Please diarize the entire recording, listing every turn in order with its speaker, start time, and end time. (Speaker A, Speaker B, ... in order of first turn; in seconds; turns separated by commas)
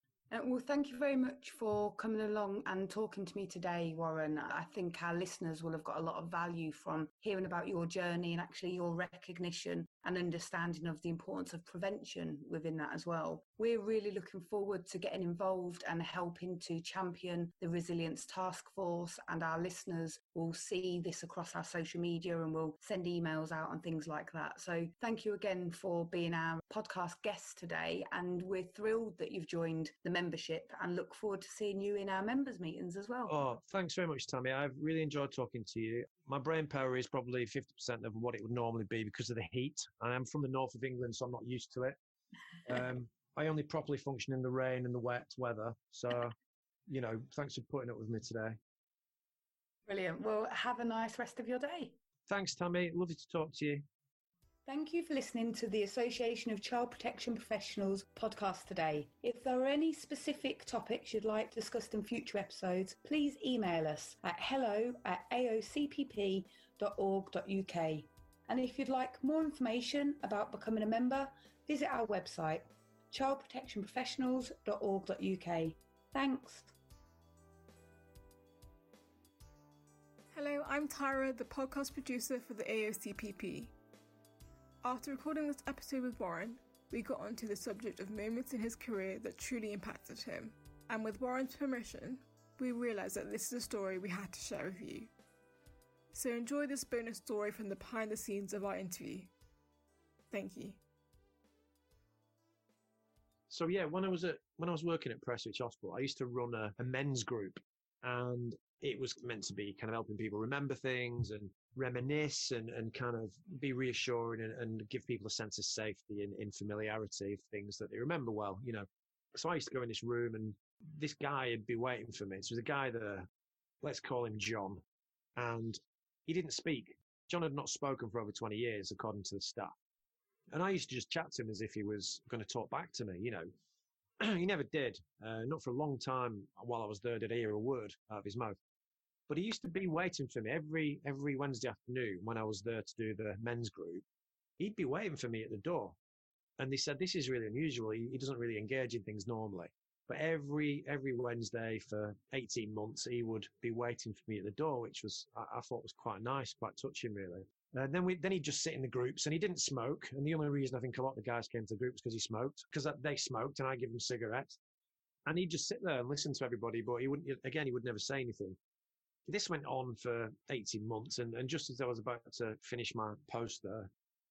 Speaker A: 0.3-33.4, Speaker B: 33.3-42.0, Speaker B: 42.7-46.3, Speaker B: 46.9-48.6, Speaker A: 49.9-52.0, Speaker B: 52.3-53.8, Speaker A: 54.7-76.7, Speaker C: 80.3-83.7, Speaker C: 84.8-95.1, Speaker C: 96.1-99.3, Speaker C: 100.3-100.8, Speaker B: 103.5-123.3, Speaker B: 123.8-124.8, Speaker B: 125.4-129.7, Speaker B: 130.5-133.5, Speaker B: 134.2-138.6, Speaker B: 139.3-144.0, Speaker B: 144.6-146.0, Speaker B: 146.6-164.6, Speaker B: 165.3-168.6, Speaker B: 169.3-173.9